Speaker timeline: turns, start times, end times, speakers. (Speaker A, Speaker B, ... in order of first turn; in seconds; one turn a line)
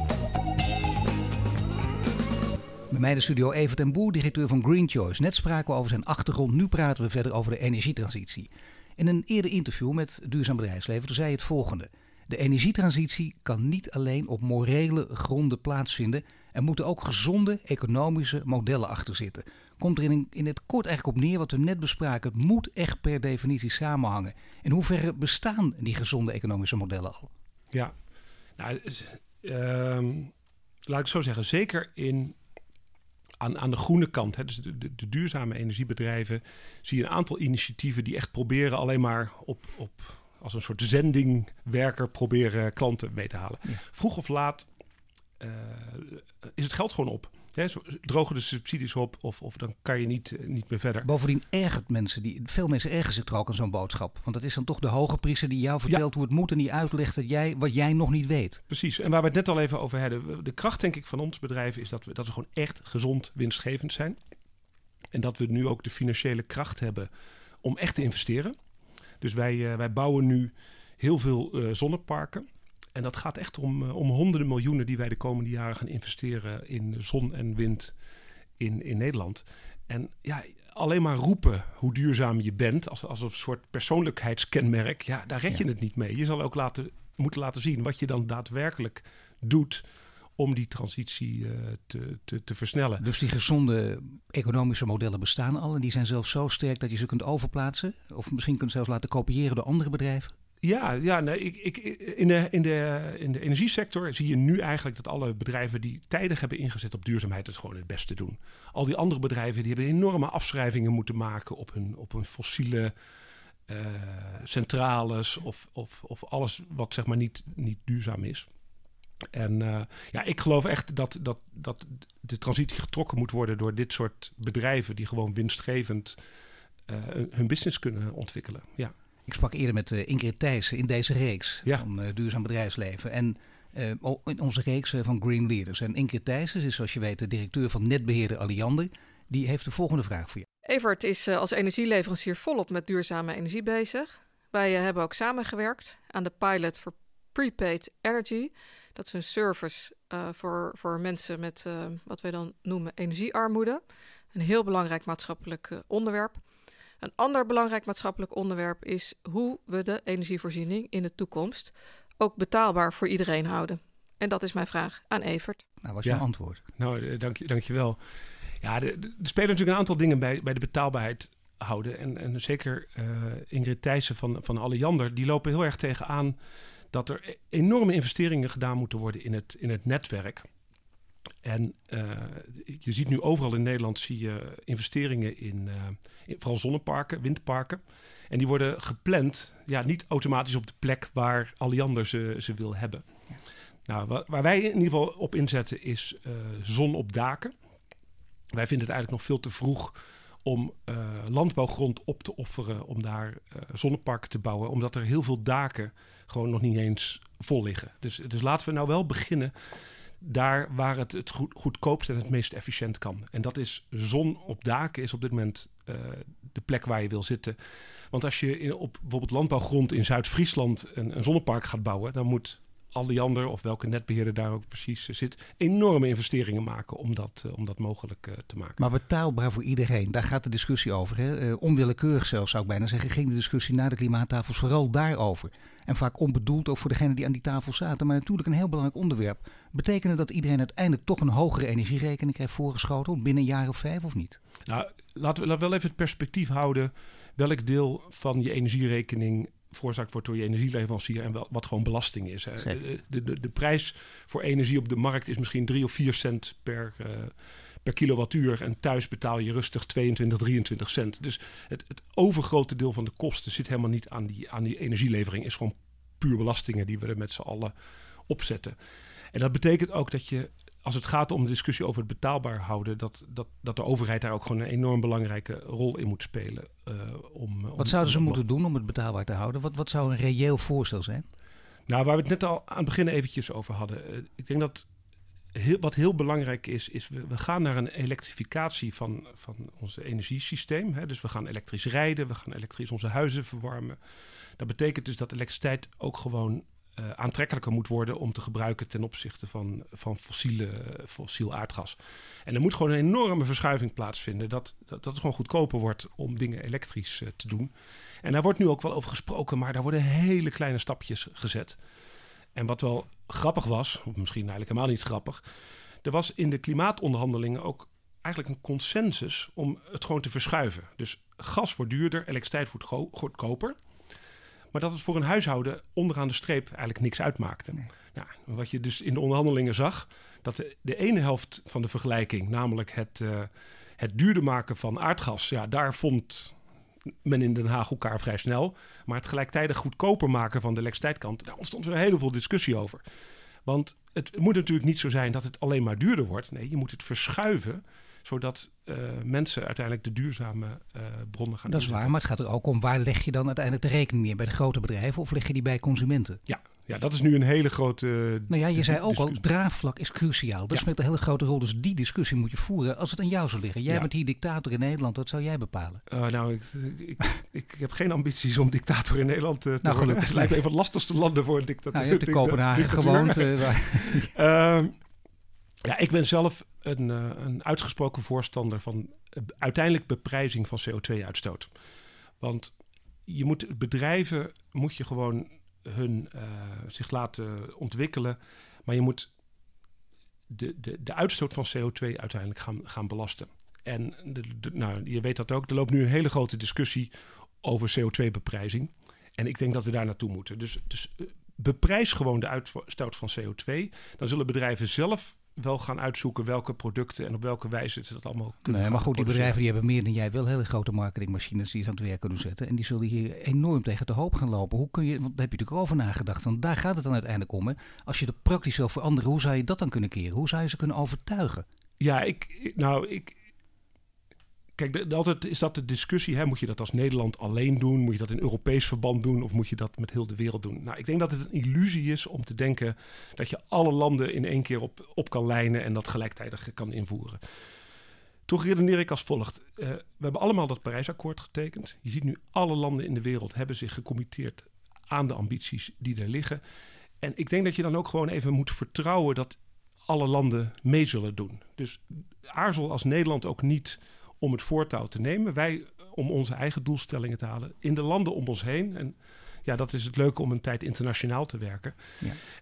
Speaker A: 2.9-27.3
Speaker B: 28.6-30.3
Speaker B: 30.9-32.4
Speaker B: 33.4-44.7
Speaker B: 45.4-51.1
Speaker A: 51.0-58.6
Speaker B: 58.7-64.2
Speaker B: 65.1-67.1
Speaker B: 67.6-68.6
Speaker B: 69.2-78.0
Speaker B: 78.6-89.9
Speaker B: 90.4-93.0
Speaker A: 93.0-100.3
Speaker B: 100.6-112.9
Speaker B: 113.7-118.5
Speaker B: 119.3-126.2
Speaker B: 126.9-128.9
Speaker A: 129.3-140.5
Speaker C: 140.7-153.8
Speaker C: 154.3-156.4
Speaker C: 157.0-165.6
Speaker A: 165.8-166.6
Speaker B: 166.8-168.0
Speaker B: 168.6-176.4
Speaker B: 176.9-180.5
Speaker B: 181.4-193.1
Speaker B: 193.9-197.5
Speaker B: 198.5-209.5
Speaker B: 210.2-217.6
Speaker B: 218.1-228.8
Speaker A: 228.8-244.4
Speaker B: 244.7-267.7
Speaker B: 268.3-268.8
Speaker B: 269.3-278.4
Speaker A: 277.8-281.3
Speaker B: 281.9-284.9
Speaker B: 285.5-294.0
Speaker B: 294.6-311.8
Speaker B: 312.5-315.4
Speaker B: 316.0-323.8
Speaker B: 324.7-336.6
Speaker B: 337.2-343.0
Speaker B: 343.6-352.1
Speaker A: 351.7-356.4
Speaker B: 356.5-359.4
Speaker A: 358.5-366.0
Speaker B: 366.1-374.9
Speaker A: 369.8-370.6
Speaker A: 371.9-374.3
Speaker B: 375.8-381.7
Speaker B: 382.4-382.7
Speaker B: 383.3-389.3
Speaker B: 390.5-409.6
Speaker A: 408.6-421.6
Speaker B: 422.0-423.4
Speaker B: 424.8-437.4
Speaker B: 438.5-446.6
Speaker B: 447.2-462.0